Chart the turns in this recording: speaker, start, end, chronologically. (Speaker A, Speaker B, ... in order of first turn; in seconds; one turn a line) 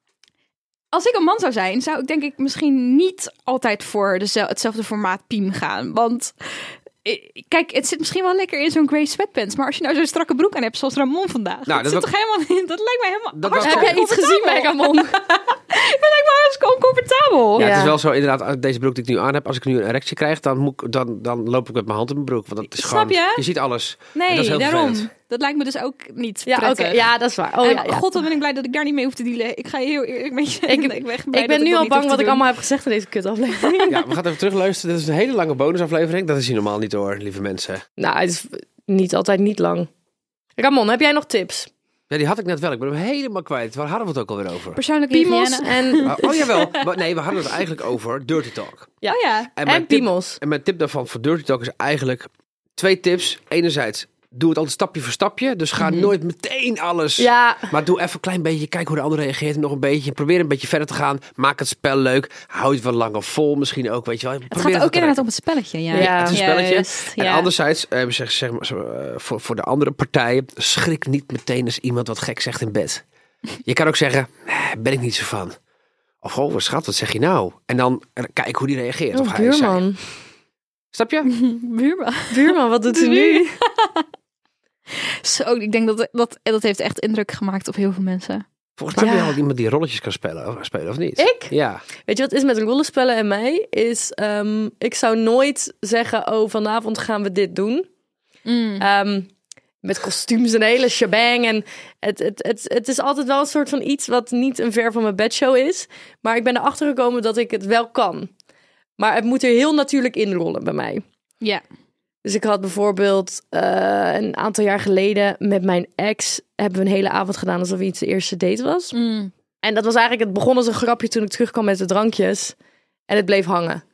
Speaker A: 0.9-17.9
Speaker B: 11.7-12.1
Speaker B: 13.3-14.0
Speaker C: 13.6-15.2
Speaker C: 17.6-18.0
Speaker B: 17.6-25.1
Speaker A: 22.8-23.4
Speaker A: 24.1-27.1
Speaker C: 26.5-28.1
Speaker A: 27.6-32.5
Speaker C: 30.7-34.1
Speaker B: 33.9-37.8
Speaker C: 38.0-39.9
Speaker C: 40.6-41.7
Speaker B: 42.1-44.8
Speaker A: 44.8-46.9
Speaker C: 45.1-46.4
Speaker B: 46.0-49.0
Speaker C: 49.0-50.4
Speaker A: 49.1-49.5
Speaker B: 49.6-65.2
Speaker A: 55.8-56.1
Speaker C: 57.2-57.7
Speaker A: 64.5-67.5
Speaker C: 65.9-66.4
Speaker B: 65.9-73.0
Speaker B: 73.7-75.6
Speaker B: 76.2-79.8
Speaker C: 79.1-80.0
Speaker B: 80.9-81.3
Speaker A: 81.3-84.1
Speaker C: 82.3-83.5
Speaker A: 85.0-88.5
Speaker B: 88.8-91.8
Speaker C: 89.0-89.4
Speaker C: 91.2-91.5
Speaker C: 92.1-97.9
Speaker A: 98.5-98.9
Speaker C: 98.8-99.3
Speaker C: 99.8-108.3
Speaker C: 109.0-111.0
Speaker C: 112.2-119.0
Speaker A: 118.9-119.3
Speaker C: 119.6-122.6
Speaker C: 123.1-123.8